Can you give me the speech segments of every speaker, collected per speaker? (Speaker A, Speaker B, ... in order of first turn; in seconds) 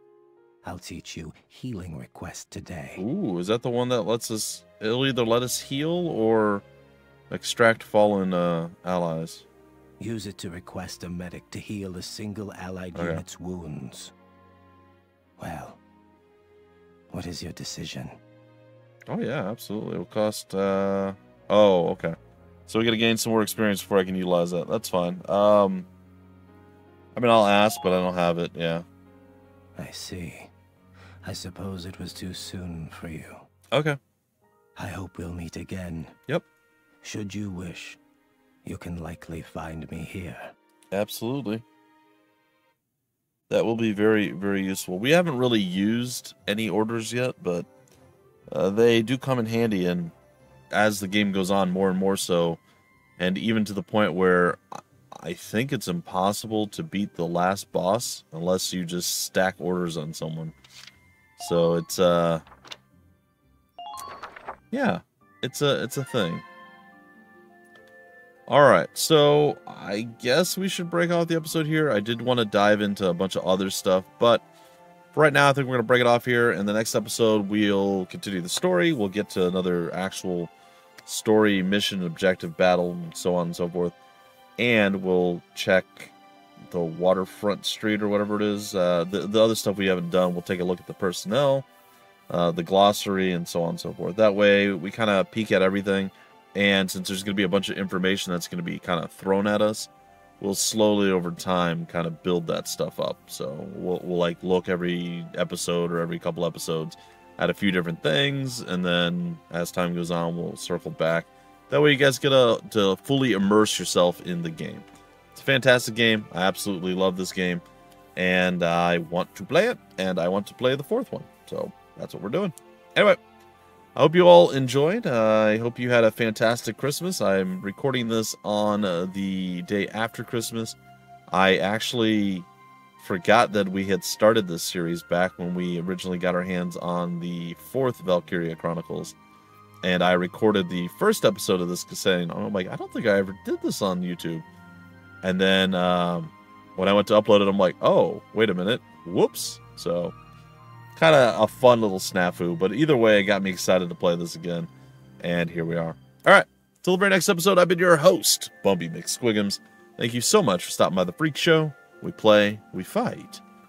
Speaker A: 0.6-3.0, 10.0-14.1, 15.4-15.8, 17.1-18.2, 29.8-30.5, 31.2-33.5, 34.8-36.2, 37.0-38.0, 38.6-40.5
Speaker B: 3.0-6.7, 7.3-9.5, 12.9-13.2, 19.1-25.9, 27.1-28.9, 33.7-34.0, 40.9-41.6, 43.5-47.7, 48.5-50.1, 50.7-52.6, 53.2-60.5, 61.4-62.4, 64.7-66.5, 68.5-74.4, 75.1-80.5, 81.0-84.0, 84.6-86.1, 86.7-91.7, 92.3-117.6, 118.2-123.2, 124.0-130.8, 131.3-132.5, 133.0-139.2, 139.8-144.4, 145.2-150.2, 151.0-154.7, 155.2-163.4